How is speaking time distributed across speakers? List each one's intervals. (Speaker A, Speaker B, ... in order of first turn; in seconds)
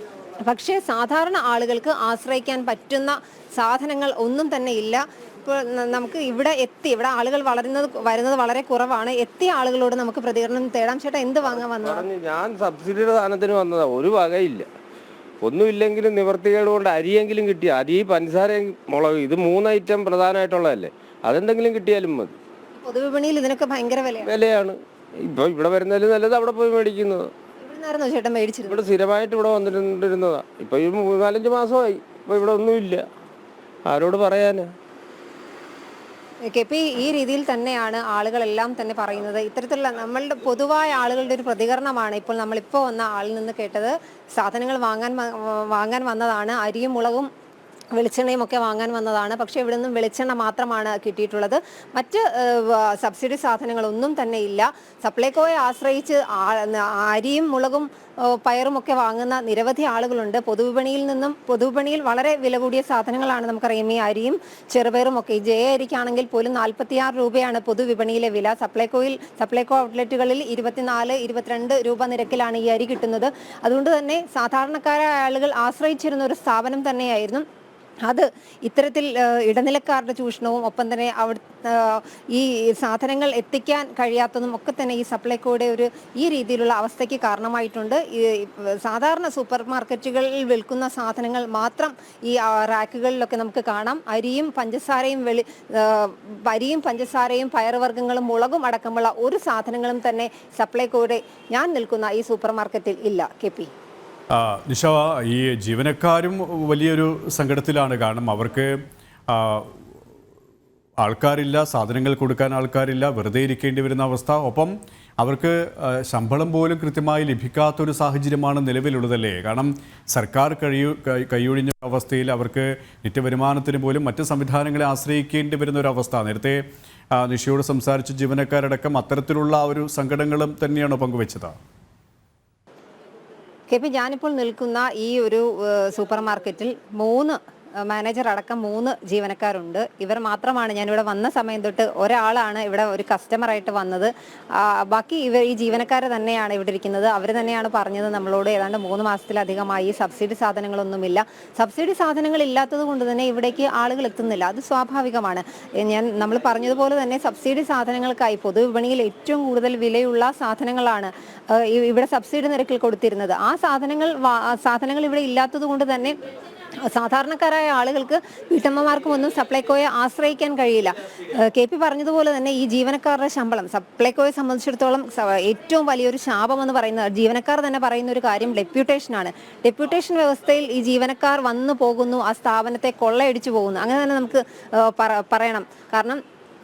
Speaker A: 0.5-12.1, 22.8-24.3, 27.6-28.8, 36.5-47.3, 48.0-77.5, 78.1-103.7, 133.7-166.2, 166.9-186.2
Speaker B: 11.6-14.7, 15.4-22.4, 24.2-27.3, 28.7-33.0, 33.9-34.7
Speaker C: 104.3-108.8, 109.3-109.7, 111.0-126.6, 127.1-131.6